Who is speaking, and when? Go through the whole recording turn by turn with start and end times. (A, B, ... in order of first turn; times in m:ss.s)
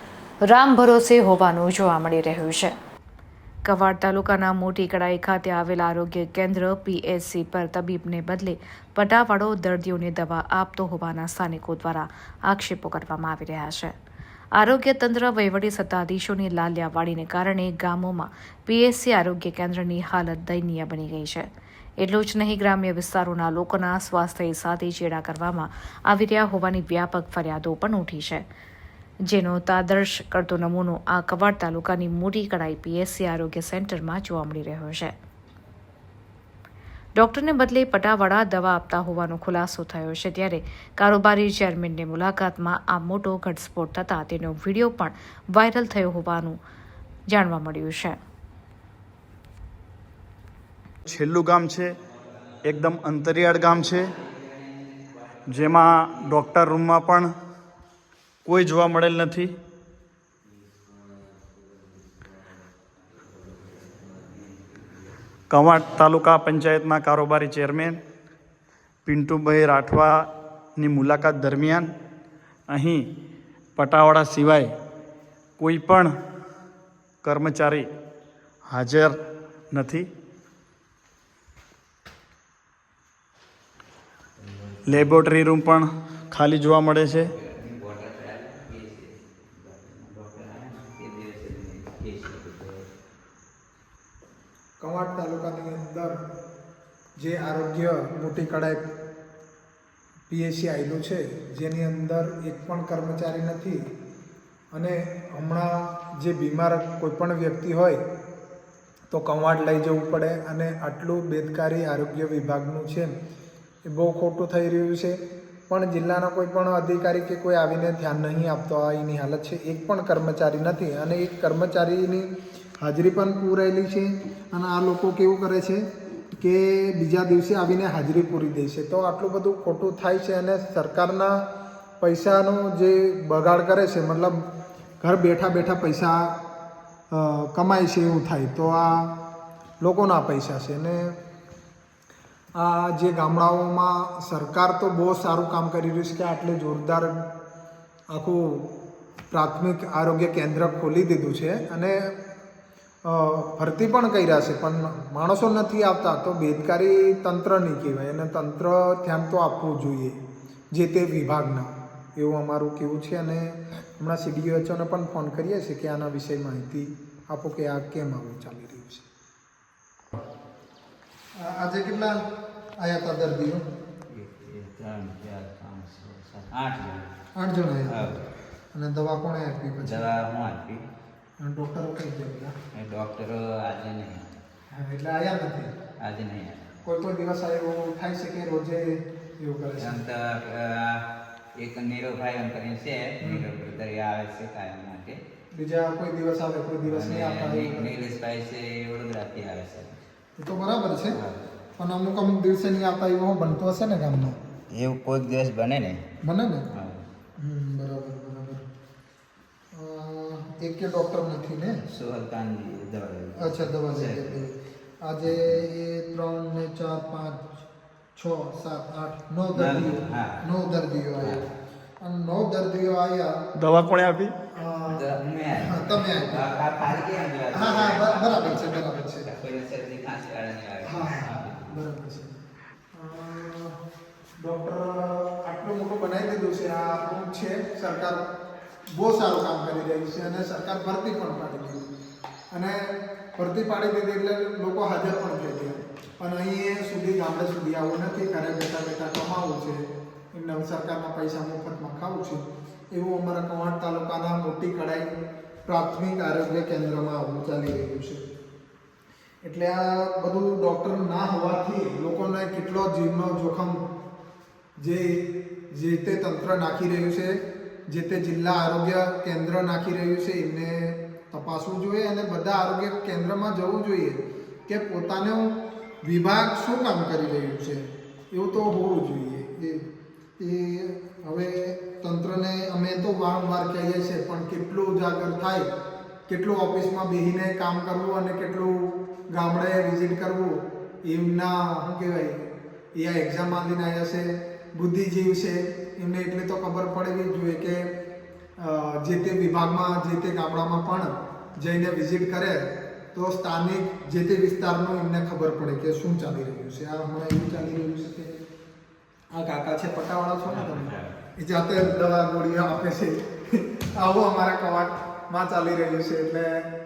0:00.4-0:02.7 A
0:03.6-0:13.9 A
0:14.6-0:21.4 A
0:22.0-0:28.4 A
0:29.3-0:35.1 A
0:37.2-0:46.6 A
0:47.3-0:48.2 A
0:51.0-0:51.9 B
0:52.6-0:54.1 B
0:53.6-0:56.3 C
0:55.5-0:57.3 B
0:58.4-0:59.5 B
1:01.0-1:02.3 C
1:03.1-1:05.2 C
1:05.5-1:08.0 B
1:09.0-1:11.9 B
1:12.7-1:13.1 B
1:13.8-1:14.7 B
1:15.6-1:16.1 B
1:17.2-1:17.9 B
1:18.7-1:19.2 B
1:19.7-1:20.1 B
1:24.4-1:25.2 C
1:24.9-1:27.3 B
1:27.1-1:32.8 C
1:34.8-1:36.2 D
1:37.2-1:38.8 D
1:40.3-1:43.8 D
1:44.7-1:48.0 D
1:49.1-1:53.1 D
1:53.9-1:55.2 D
1:55.7-2:05.8 D
2:06.4-2:11.4 D
2:12.0-2:14.5 D
2:15.0-2:16.3 D
2:17.1-2:19.1 D
2:19.8-2:21.1 D
2:22.6-2:27.2 D
2:28.1-2:28.7 D
2:29.3-2:32.1 D
2:33.0-2:40.2 D
2:40.7-2:49.0 D
2:51.4-2:52.2 D
2:52.8-2:53.6 D
2:54.1-2:57.1 C
2:57.4-2:58.2 D
2:57.9-2:58.2 C
2:58.7-3:00.1 D
2:59.8-3:00.8 C
3:01.4-3:02.5 D
3:02.7-3:04.4 C
3:04.7-3:05.7 D
3:06.0-3:06.7 C
3:06.8-3:10.0 D
3:09.8-3:11.0 C
3:11.6-3:15.2 C
3:15.5-3:17.9 D
3:16.8-3:20.0 C
3:20.4-3:21.2 D
3:21.1-3:21.5 C
3:21.8-3:24.4 D
3:24.7-3:26.0 C
3:26.2-3:26.7 D
3:26.7-3:27.0 C
3:27.4-3:28.6 D
3:29.7-3:31.8 D
3:31.8-3:34.4 C
3:33.4-3:37.5 D
3:35.2-3:35.6 C
3:38.2-3:41.5 D
3:39.6-3:40.4 C
3:41.2-3:41.4 C
3:42.0-3:43.4 D
3:43.6-3:44.3 B
3:44.5-3:47.0 D
3:44.9-3:51.8 C
3:47.5-3:49.3 D
3:50.8-3:52.4 D
3:52.9-3:53.8 D
3:54.4-3:58.2 D
3:58.9-4:01.9 D
4:02.5-4:15.1 D
4:15.6-4:18.2 D
4:19.4-4:23.8 D
4:24.8-4:27.4 D
4:27.9-4:35.5 D
4:36.0-4:39.8 D
4:40.4-4:45.7 D
4:46.3-4:52.4 D
4:53.0-4:57.8 D
4:58.6-5:08.4 D
5:09.3-5:16.7 D
5:10.4-5:11.2 C